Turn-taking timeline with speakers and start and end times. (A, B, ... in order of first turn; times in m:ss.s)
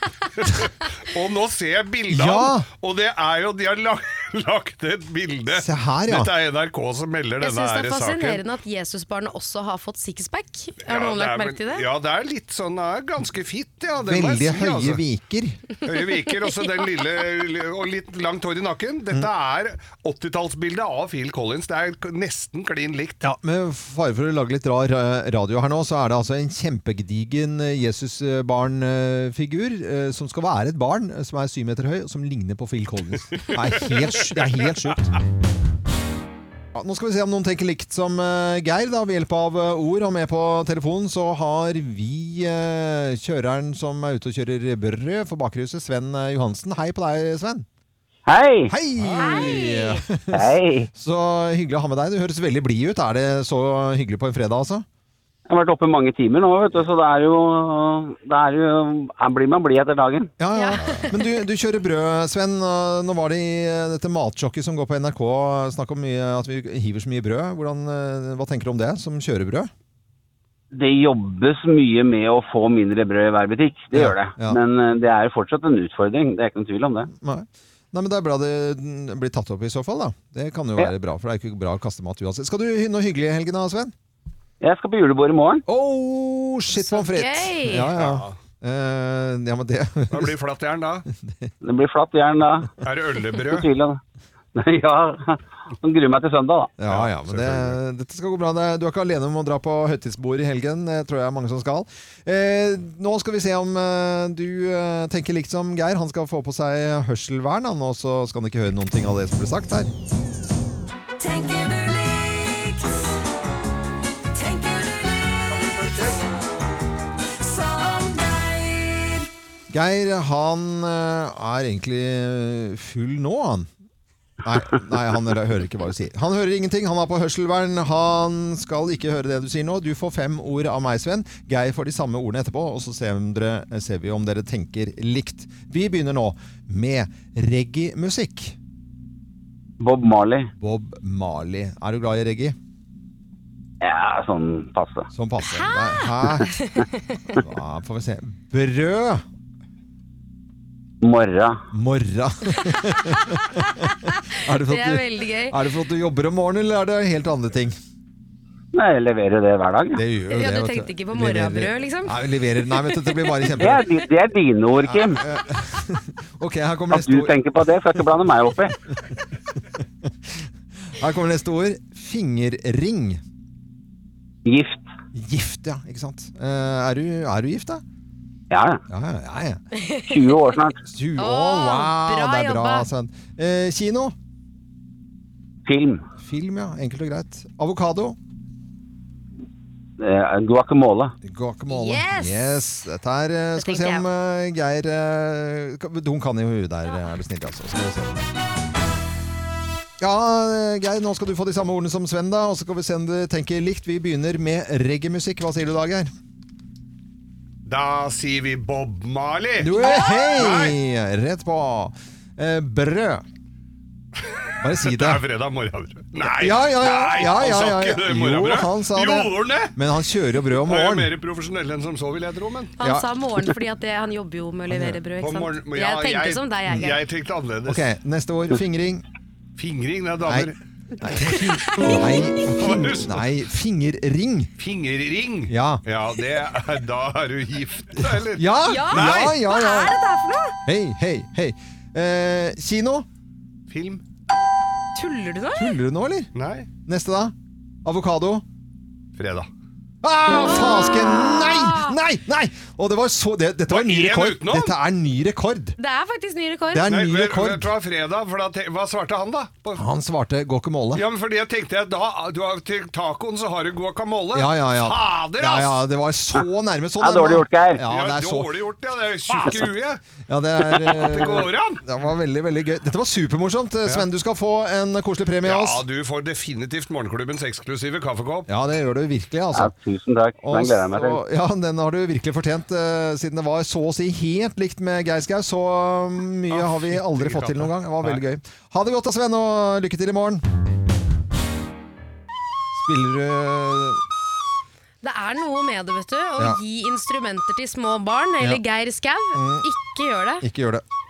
0:00.3-0:08.4 A
0:02.1-0:02.7 B
0:05.5-0:06.3 B
0:07.4-0:11.8 C
0:10.9-0:15.0 A
0:14.0-0:15.6 B
0:15.8-0:23.2 A
0:23.2-0:35.1 B
0:36.7-0:47.6 B
0:48.2-0:48.7 D
0:48.7-0:54.8 B
0:49.2-0:50.0 C
0:50.3-0:50.9 D
0:55.5-1:00.3 D
1:00.4-1:09.7 B
1:00.5-1:01.2 C
1:10.7-1:17.1 D
1:13.9-1:14.6 B
1:17.1-1:23.9 B
1:24.6-1:25.6 D
1:25.7-1:30.3 B
1:26.8-1:27.9 C
1:27.9-1:28.3 A
1:30.1-1:31.0 A
1:31.2-1:31.5 B
1:31.6-1:32.7 D
1:32.8-1:33.7 A
1:33.4-1:34.0 D
1:34.5-1:36.7 D
1:36.8-1:49.9 B
1:36.8-1:37.8 A
1:51.2-1:53.1 E
1:54.3-1:56.3 E
1:57.4-1:59.3 E
1:59.7-2:03.7 B
2:04.4-2:18.6 B
2:19.8-2:20.5 D
2:20.6-2:22.6 B
2:23.8-2:25.1 D
2:25.1-2:26.5 B
2:25.4-2:27.4 C
2:27.3-2:29.2 B
2:31.0-2:31.6 D
2:31.7-2:37.8 B
2:32.7-2:35.6 C
2:38.7-2:40.0 D
2:39.9-2:43.9 B
2:40.3-2:42.2 C
2:42.7-2:43.4 C
2:43.6-2:45.2 D
2:44.8-2:48.1 B
2:46.9-2:48.7 D
2:50.0-2:53.2 B
2:54.4-2:54.8 D
2:55.1-2:57.8 B
2:58.5-2:58.8 D
2:58.9-2:59.6 B
2:59.7-3:00.5 C
3:00.1-3:00.8 D
3:00.8-3:04.1 B
3:01.2-3:02.9 C
3:05.6-3:06.0 D
3:06.2-3:08.2 B
3:10.0-3:11.1 D
3:11.2-3:18.2 B
3:11.7-3:12.6 C
3:13.6-3:14.0 C
3:20.0-3:26.1 B
3:27.6-3:29.8 A
3:29.6-3:33.2 B
3:29.8-3:30.3 C
3:30.4-3:30.7 A
3:34.6-3:35.2 B
3:34.8-3:39.7 A
3:36.2-3:41.1 B
3:40.6-3:42.7 A
3:42.8-3:47.0 C
3:42.8-3:43.0 B
3:44.7-3:45.0 B
3:45.2-3:47.8 A
3:47.6-3:49.0 B
3:49.6-3:50.6 A
3:50.2-3:54.5 B
3:51.3-3:52.0 C
3:52.5-3:53.2 A
3:54.6-3:59.4 A
3:55.5-3:55.8 B
3:58.0-4:00.0 B
3:58.6-4:00.6 C
4:00.6-4:03.0 B
4:03.7-4:04.0 A
4:05.0-4:05.8 C
4:05.5-4:06.3 B
4:06.3-4:06.7 A
4:06.8-4:07.3 B
4:07.8-4:08.4 B
4:09.2-4:09.5 A
4:10.0-4:15.8 B
4:10.3-4:12.0 C
4:13.7-4:14.7 A
4:15.8-4:16.9 C
4:16.7-4:17.7 B
4:16.9-4:19.8 A
4:19.8-4:21.0 B
4:20.9-4:25.8 A
4:24.3-4:28.5 B
4:27.0-4:27.8 D
4:27.9-4:30.0 A
4:29.3-4:29.7 B
4:30.3-4:35.8 B
4:30.6-4:31.8 A
4:35.4-4:38.5 A
4:38.5-4:39.7 B
4:39.5-4:41.2 D
4:40.4-4:50.4 B
4:46.5-4:48.2 A
4:52.8-4:54.0 B
4:55.0-5:00.4 C
4:59.3-4:59.7 B
5:00.4-5:00.8 B